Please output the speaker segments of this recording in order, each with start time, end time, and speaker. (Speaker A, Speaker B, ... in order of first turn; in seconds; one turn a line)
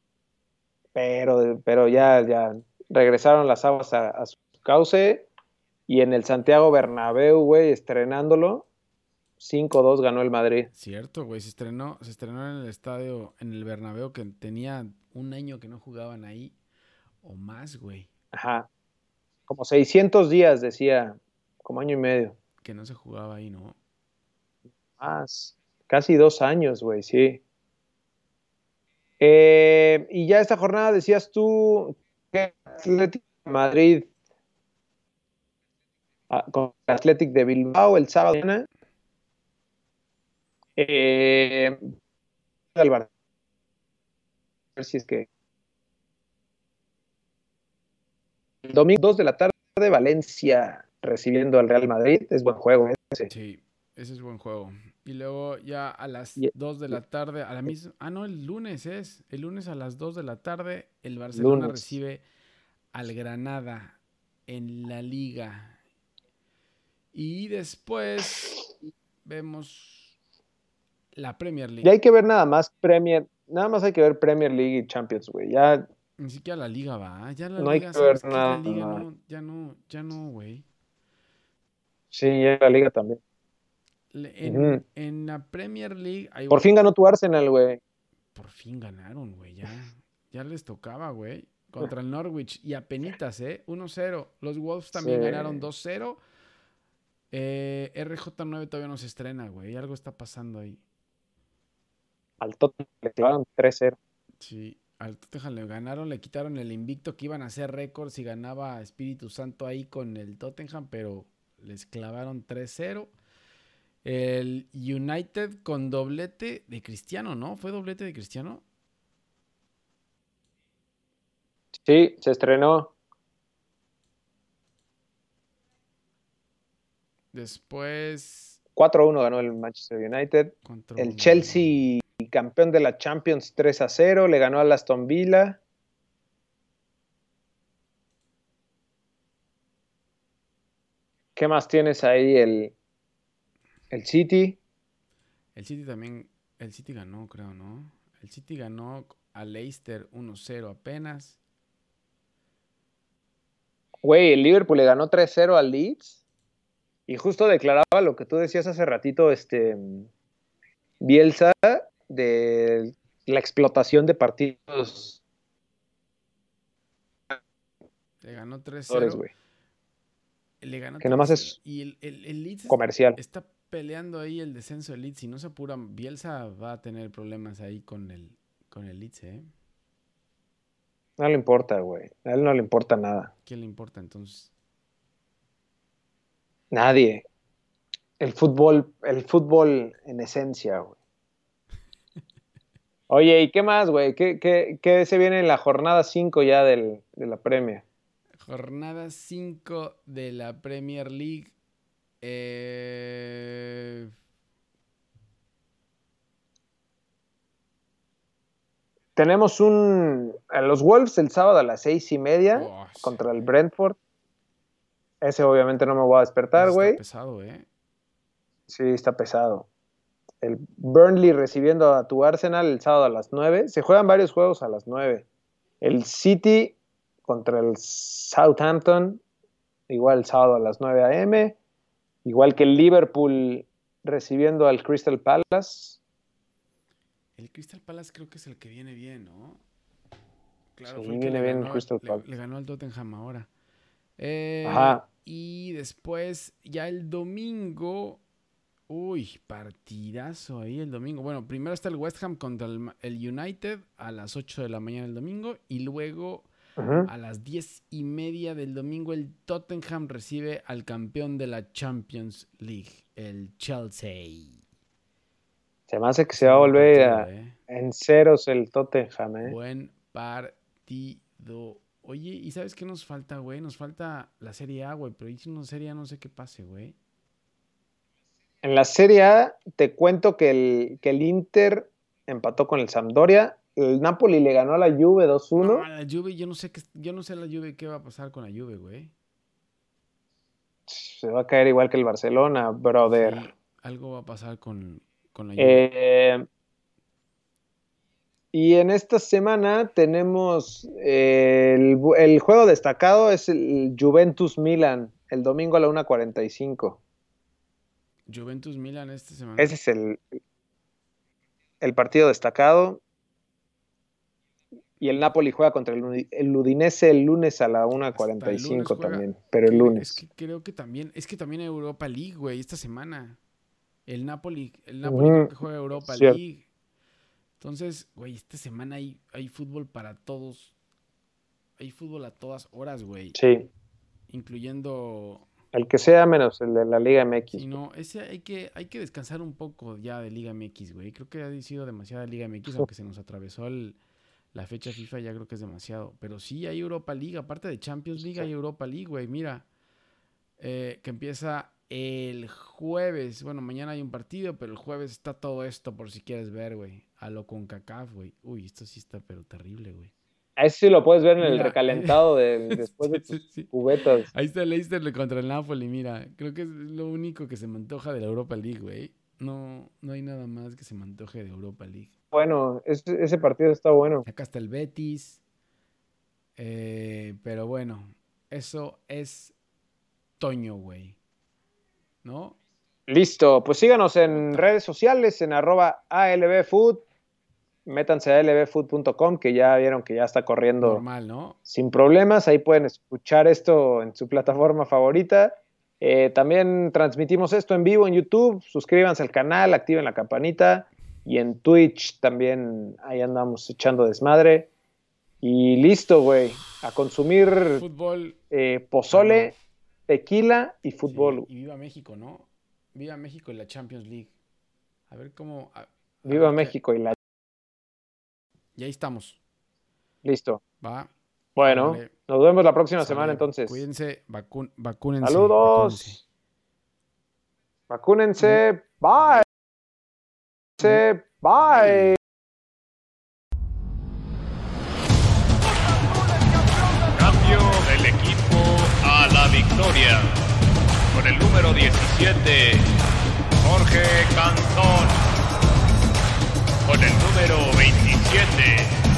Speaker A: 0.9-5.3
Speaker A: 5.9-8.7
Speaker A: 9.4-10.7
Speaker B: 10.7-16.5
Speaker B: 17.2-18.1
Speaker A: 18.3-18.7
Speaker A: 19.5-22.4
Speaker B: 22.6-23.8
Speaker A: 25.0-27.4
Speaker A: 29.2-34.1
Speaker A: 36.3-38.7
Speaker A: 40.8-41.8
Speaker A: 42.7-43.1
Speaker A: 44.8-45.3
Speaker A: 48.6-53.3
Speaker B: 53.3-62.2
Speaker A: 61.3-62.0
Speaker B: 62.9-65.8
Speaker B: 67.1-68.6
Speaker B: 69.2-70.1
Speaker B: 71.1-71.9
Speaker A: 71.8-75.9
Speaker B: 76.2-80.6
Speaker A: 77.6-79.0
Speaker A: 82.1-83.2
Speaker B: 84.1-86.7
Speaker A: 84.4-84.8
Speaker A: 86.5-87.8
Speaker B: 88.3-96.2
Speaker A: 94.9-95.7
Speaker B: 97.3-100.8
Speaker A: 102.4-104.0
Speaker B: 104.4-113.1
Speaker B: 114.0-118.6
Speaker A: 121.8-122.9
Speaker B: 127.3-128.6
Speaker A: 128.8-135.6
Speaker B: 130.6-131.8
Speaker A: 141.3-142.7
Speaker A: 143.9-144.6
Speaker B: 145.5-151.4
Speaker A: 154.0-156.2
Speaker A: 157.1-160.1
Speaker A: 161.0-165.2
Speaker B: 168.2-169.3
Speaker A: 168.9-169.3
Speaker B: 170.6-179.4
Speaker A: 171.0-171.5
Speaker A: 172.7-173.2
Speaker A: 181.2-183.3
Speaker B: 183.4-184.5
Speaker A: 186.7-187.2
Speaker A: 188.2-190.9
Speaker A: 193.1-197.8
Speaker B: 198.4-201.5
Speaker B: 202.2-204.1
Speaker A: 209.2-214.0
Speaker B: 212.5-213.2
Speaker A: 215.2-217.0
Speaker B: 216.5-217.7
Speaker A: 218.7-219.7
Speaker A: 220.4-225.2
Speaker A: 225.8-226.8
Speaker A: 227.3-229.2
Speaker A: 229.9-231.6
Speaker A: 232.2-236.0
Speaker B: 237.4-239.6
Speaker B: 240.7-243.5
Speaker A: 240.9-242.2
Speaker B: 244.2-248.2
Speaker A: 244.6-245.0
Speaker B: 248.9-256.5
Speaker A: 256.8-257.1
Speaker B: 257.0-264.6
Speaker A: 265.9-269.6
Speaker B: 266.3-267.6
Speaker B: 269.4-276.9
Speaker A: 278.6-285.9
Speaker B: 285.6-289.1
Speaker A: 290.9-293.5
Speaker B: 293.1-295.9
Speaker A: 295.6-296.4
Speaker A: 298.5-307.0
Speaker B: 308.3-309.7
Speaker A: 309.6-310.2
Speaker A: 311.8-313.0
Speaker A: 315.0-320.2
Speaker B: 317.9-323.4
Speaker B: 324.1-326.6
Speaker A: 325.0-326.4
Speaker B: 327.6-330.7
Speaker B: 331.8-333.4
Speaker A: 333.3-333.7
Speaker B: 334.3-335.5
Speaker A: 335.7-337.7
Speaker B: 337.5-344.0
Speaker B: 344.5-349.6
Speaker A: 348.2-348.5
Speaker B: 350.6-360.1
Speaker A: 360.6-364.3
Speaker B: 361.4-362.2
Speaker B: 362.7-363.7
Speaker B: 364.3-372.1
Speaker A: 372.3-374.3
Speaker B: 374.2-375.4
Speaker B: 376.6-379.5
Speaker B: 380.4-381.2
Speaker B: 382.2-382.6
Speaker A: 383.1-387.0
Speaker B: 384.3-384.8
Speaker A: 387.9-391.0
Speaker B: 390.8-391.6
Speaker A: 391.6-404.7
Speaker A: 405.4-407.8
Speaker B: 407.7-408.4
Speaker A: 408.5-409.5
Speaker B: 409.1-409.6
Speaker A: 410.1-411.4
Speaker B: 411.1-414.3
Speaker B: 415.1-416.7
Speaker A: 416.2-417.1
Speaker B: 418.8-419.4
Speaker A: 420.2-420.6
Speaker B: 420.8-421.1
Speaker A: 421.6-423.8
Speaker B: 421.6-422.1
Speaker B: 423.0-426.2
Speaker A: 425.2-426.2
Speaker A: 427.9-429.4
Speaker A: 430.8-432.2
Speaker B: 431.7-432.1
Speaker C: 437.1-440.4
Speaker C: 441.1-442.9
Speaker C: 443.6-445.2
Speaker C: 446.8-449.0